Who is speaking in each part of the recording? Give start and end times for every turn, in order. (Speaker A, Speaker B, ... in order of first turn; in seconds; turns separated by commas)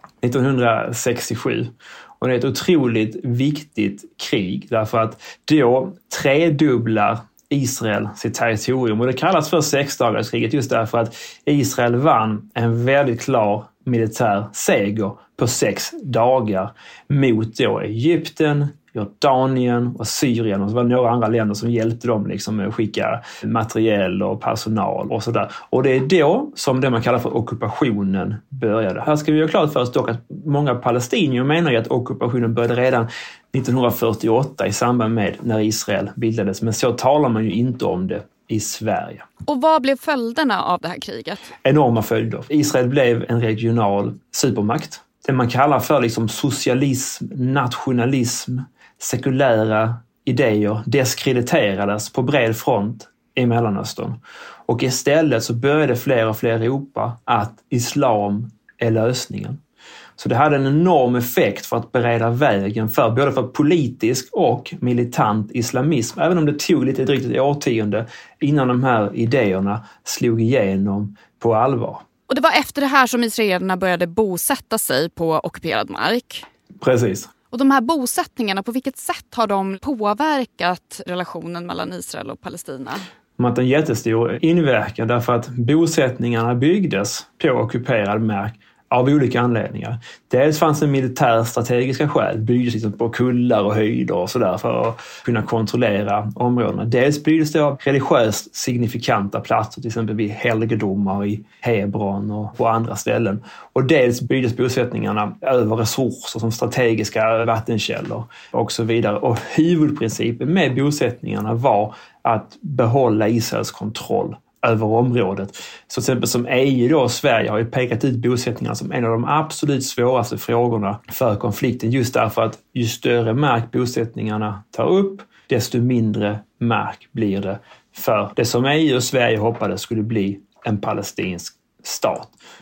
Speaker A: 0.2-39.2, Speaker B: 39.5-41.5, Speaker A: 41.6-59.6, Speaker A: 60.2-72.0, Speaker B: 72.3-76.5, Speaker A: 76.8-77.3, Speaker B: 77.5-83.0, Speaker A: 83.4-132.3